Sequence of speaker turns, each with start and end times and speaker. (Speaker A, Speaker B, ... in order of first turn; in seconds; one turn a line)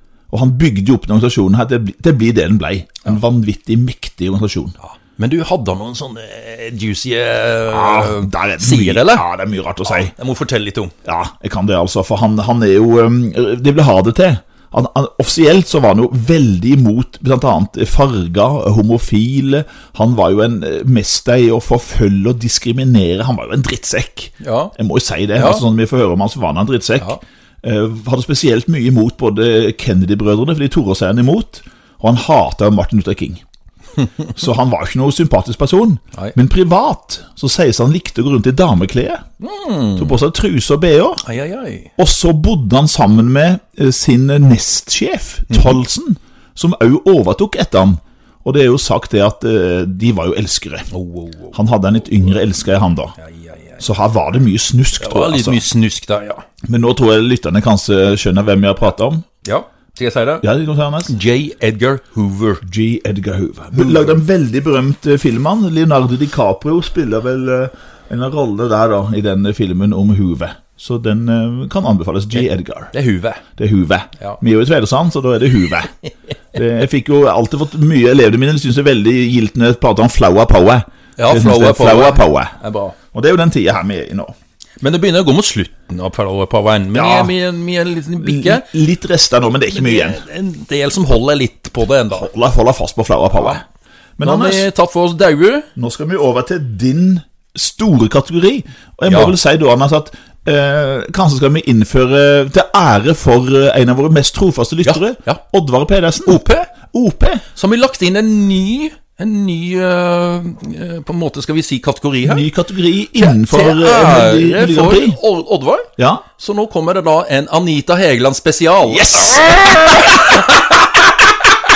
Speaker A: 0.3-4.7
Speaker B: 4.8-9.2
Speaker A: 7.7-10.1
Speaker B: 9.9-10.9
Speaker A: 11.0-33.4
Speaker B: 24.4-24.7
Speaker B: 25.4-25.6
Speaker A: 34.3-39.2
Speaker B: 39.4-40.2
Speaker A: 40.0-41.2
Speaker B: 41.2-41.9
Speaker A: 42.0-50.9
Speaker B: 45.5-45.8
Speaker B: 50.9-51.7
Speaker A: 51.5-53.1
Speaker B: 53.2-53.8
Speaker A: 53.8-55.6
Speaker B: 55.0-56.4
Speaker A: 56.6-59.2
Speaker B: 59.4-60.5
Speaker A: 60.4-61.1
Speaker B: 61.1-62.6
Speaker A: 62.6-72.9
Speaker B: 63.8-64.2
Speaker B: 72.3-73.4
Speaker A: 73.6-75.9
Speaker A: 76.5-82.5
Speaker B: 81.2-83.0
Speaker A: 83.1-84.3
Speaker B: 84.8-88.7
Speaker A: 86.9-87.3
Speaker A: 88.2-90.2
Speaker B: 89.7-92.3
Speaker A: 92.1-93.6
Speaker A: 94.2-94.7
Speaker B: 94.2-95.7
Speaker A: 95.8-107.4
Speaker B: 99.1-99.3
Speaker B: 104.8-105.4
Speaker B: 106.2-106.7
Speaker B: 107.5-112.5
Speaker A: 112.2-115.2
Speaker B: 113.2-120.6
Speaker A: 116.0-116.2
Speaker A: 118.8-120.4